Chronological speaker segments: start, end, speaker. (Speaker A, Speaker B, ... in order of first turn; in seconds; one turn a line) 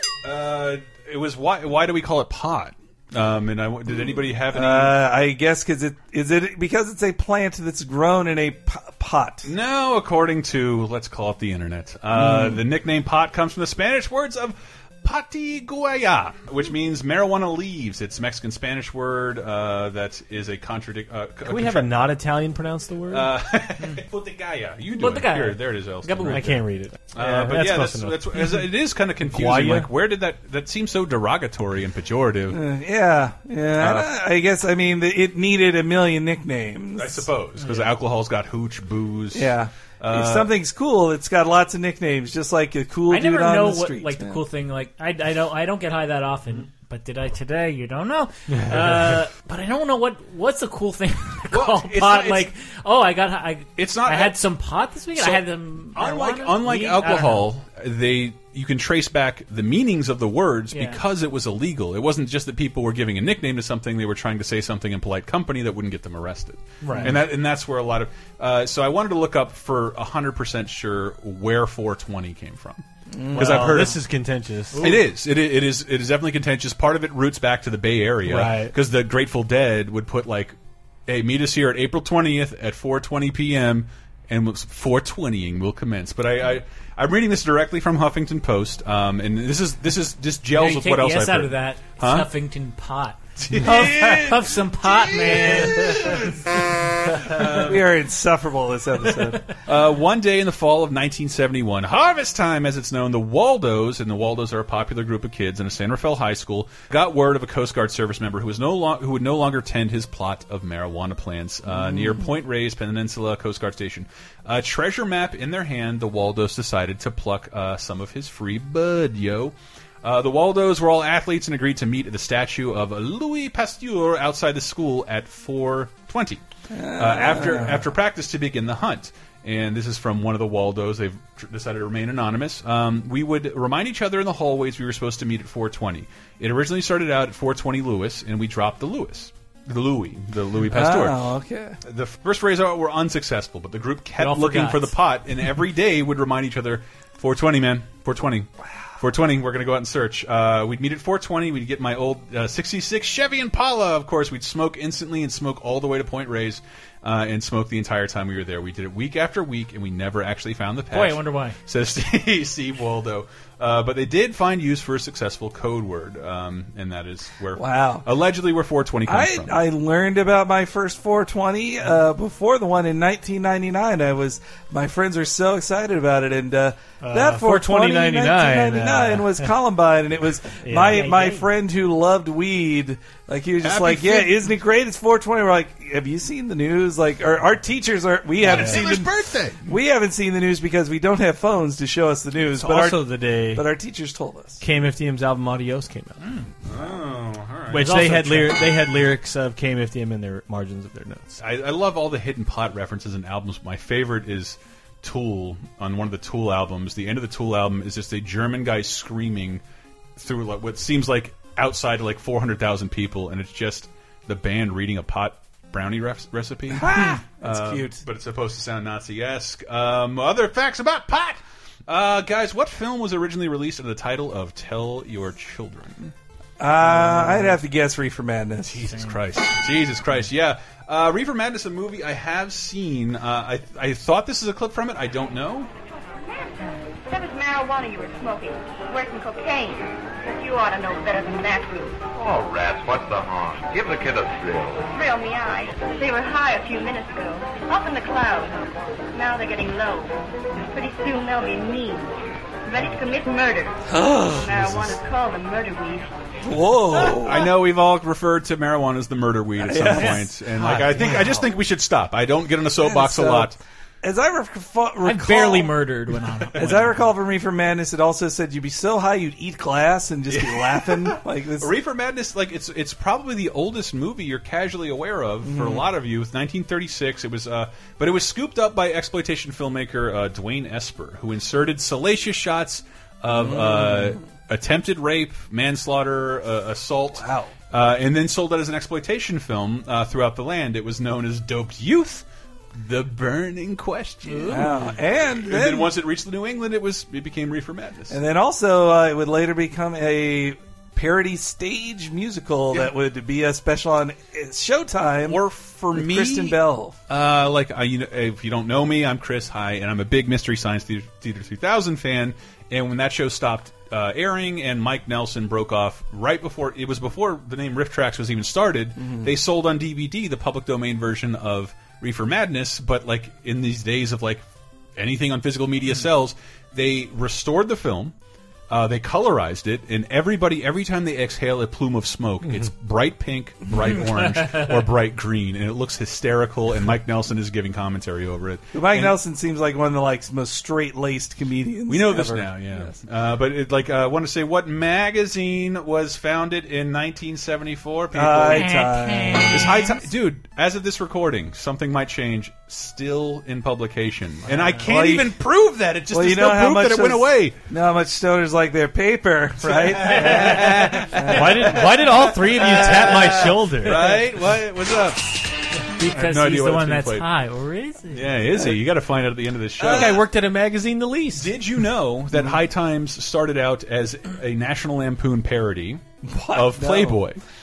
Speaker A: 0.2-5.0
Speaker B: 4.5-9.5
Speaker A: 9.4-22.1
Speaker B: 12.2-12.6
Speaker C: 21.5-23.3
Speaker A: 23.1-32.6
Speaker D: 25.0-26.4
Speaker C: 26.3-28.7
Speaker C: 29.2-29.9
Speaker B: 32.5-37.3
Speaker A: 33.8-34.1
Speaker A: 37.0-40.5
Speaker B: 39.3-44.4
Speaker D: 43.1-57.5
Speaker C: 48.5-49.2
Speaker A: 51.5-52.5
Speaker A: 53.8-54.4
Speaker A: 55.2-72.8
Speaker D: 60.7-61.0
Speaker D: 66.8-67.2
Speaker C: 66.9-67.2
Speaker B: 73.1-73.6
Speaker C: 73.3-74.9
Speaker A: 73.3-74.0
Speaker D: 73.6-74.0
Speaker D: 74.7-75.0
Speaker A: 74.8-80.6
Speaker C: 78.2-78.7
Speaker A: 81.1-92.3
Speaker D: 90.5-96.3
Speaker A: 93.4-94.3
Speaker B: 93.8-94.2
Speaker A: 95.0-96.3
Speaker A: 97.1-97.8
Speaker B: 97.4-99.4
Speaker A: 99.7-126.4
Speaker B: 111.7-112.2
Speaker B: 126.7-127.9
Speaker A: 127.0-141.2
Speaker B: 140.7-141.8
Speaker A: 141.8-148.5
Speaker D: 144.2-144.9
Speaker A: 149.0-169.6
Speaker D: 160.9-161.6
Speaker B: 167.6-168.1
Speaker B: 169.1-189.1
Speaker C: 177.0-179.5
Speaker C: 180.6-181.3
Speaker D: 181.0-181.4
Speaker A: 183.6-184.5
Speaker A: 188.4-189.7
Speaker C: 188.4-188.9
Speaker B: 189.7-194.6
Speaker C: 192.6-193.6
Speaker C: 194.6-196.2
Speaker A: 196.7-198.5
Speaker C: 197.7-201.4
Speaker D: 197.8-198.4
Speaker A: 201.4-209.6
Speaker A: 210.2-226.1
Speaker B: 216.7-218.0
Speaker B: 226.6-228.8
Speaker A: 226.9-227.5
Speaker A: 228.7-235.7
Speaker E: 237.1-242.0
Speaker F: 242.2-244.9
Speaker E: 244.9-248.6
Speaker E: 249.1-250.2
Speaker E: 250.7-256.1
Speaker B: 253.9-254.5
Speaker A: 254.5-255.0
Speaker B: 256.4-257.4
Speaker A: 256.9-263.6
Speaker B: 259.6-260.2
Speaker D: 260.0-260.9
Speaker B: 261.0-261.5
Speaker B: 262.8-265.7
Speaker D: 265.0-267.0
Speaker B: 266.6-271.7
Speaker A: 270.3-292.2
Speaker B: 275.4-275.9
Speaker B: 283.3-284.2
Speaker B: 287.2-287.5
Speaker A: 292.8-298.2
Speaker D: 294.3-294.8
Speaker B: 294.5-295.9
Speaker B: 298.1-305.4
Speaker A: 305.3-306.6
Speaker B: 305.9-307.0
Speaker A: 307.1-324.4
Speaker B: 319.0-319.3
Speaker A: 325.0-328.1
Speaker A: 328.7-339.2
Speaker D: 334.1-334.7
Speaker B: 338.7-342.9
Speaker A: 341.9-348.7
Speaker B: 348.1-349.8
Speaker D: 348.5-349.9
Speaker A: 349.5-357.6
Speaker B: 354.9-355.4
Speaker B: 356.1-361.8
Speaker A: 359.6-365.4
Speaker C: 361.2-364.2
Speaker D: 366.0-368.4
Speaker A: 366.1-367.3
Speaker A: 368.1-370.3
Speaker B: 369.8-370.2
Speaker C: 369.8-371.5
Speaker A: 371.3-377.4
Speaker B: 376.2-377.2